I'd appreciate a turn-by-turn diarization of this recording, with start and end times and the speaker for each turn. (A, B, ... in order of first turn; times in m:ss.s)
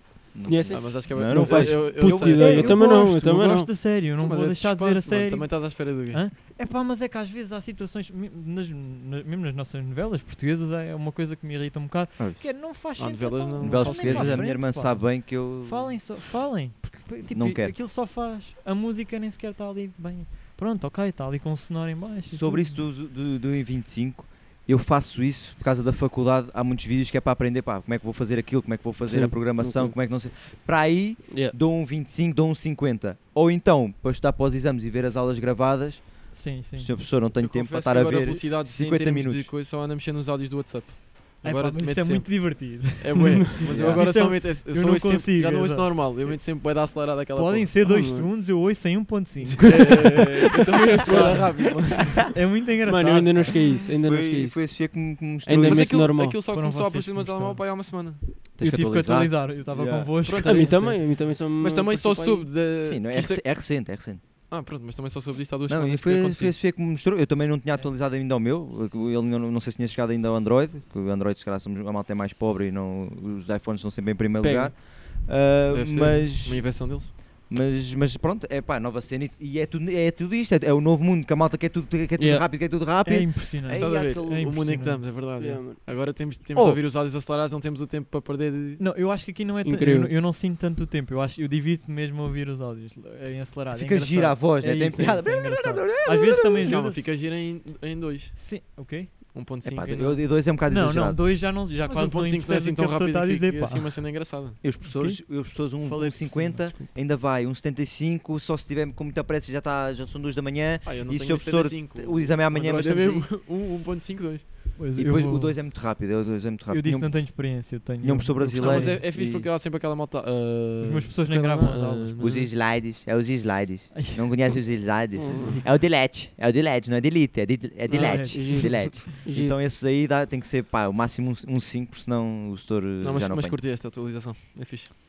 0:00.3-0:02.8 A
0:00.5-0:03.7 B
0:00.7-0:02.8 C
0:02.0-0:22.8 D
0:04.2-0:06.2 C
0:12.2-0:12.5 A
0:12.9-0:14.5 C
0:13.6-0:16.1 A
0:17.3-0:17.8 A
0:22.3-0:39.5 A
0:29.1-0:30.0 B
0:31.3-0:31.6 B
0:36.3-0:37.0 D
0:37.4-0:47.7 C
0:41.4-0:46.3 D
0:43.7-0:44.1 A
0:47.3-0:50.2 D
0:47.8-0:48.3 B
0:49.6-0:52.3 C
0:51.1-0:53.7 D
0:51.2-0:51.4 B
0:52.8-0:56.4 B
0:54.0-0:56.1 A
0:55.6-0:58.2 C
0:56.5-1:01.0 D
0:58.6-1:00.2 A
1:00.2-1:03.4 C
1:00.4-1:02.5 B
1:02.8-1:04.2 A
1:04.5-1:06.6 C
1:05.7-1:24.5 A
1:14.4-1:14.7 B
1:15.7-1:17.1 C
1:22.2-1:22.4 B
1:23.0-1:25.1 D
1:23.7-1:28.8 C
1:25.4-1:25.8 B
1:26.5-1:26.8 A
1:28.8-1:37.1 D
1:29.6-1:30.1 B
1:33.7-1:36.8 A
1:36.6-1:38.6 C
1:38.3-1:39.2 D
1:39.3-1:40.2 C
1:39.6-1:41.2 A
1:40.6-1:44.2 D
1:41.8-1:44.6 C
1:44.6-1:53.3 A
1:44.8-1:46.9 D
1:50.8-1:54.6 C
1:54.8-1:55.6 D
1:55.0-1:59.5 A
1:56.7-1:59.0 D
1:58.5-2:02.5 C
2:00.8-2:02.3 D
2:02.2-2:13.6 A
2:03.9-2:04.5 D
2:05.1-2:05.6 B
2:05.3-2:05.6 C
2:07.9-2:09.6 B
2:07.9-2:09.2 D
2:13.0-2:14.9 C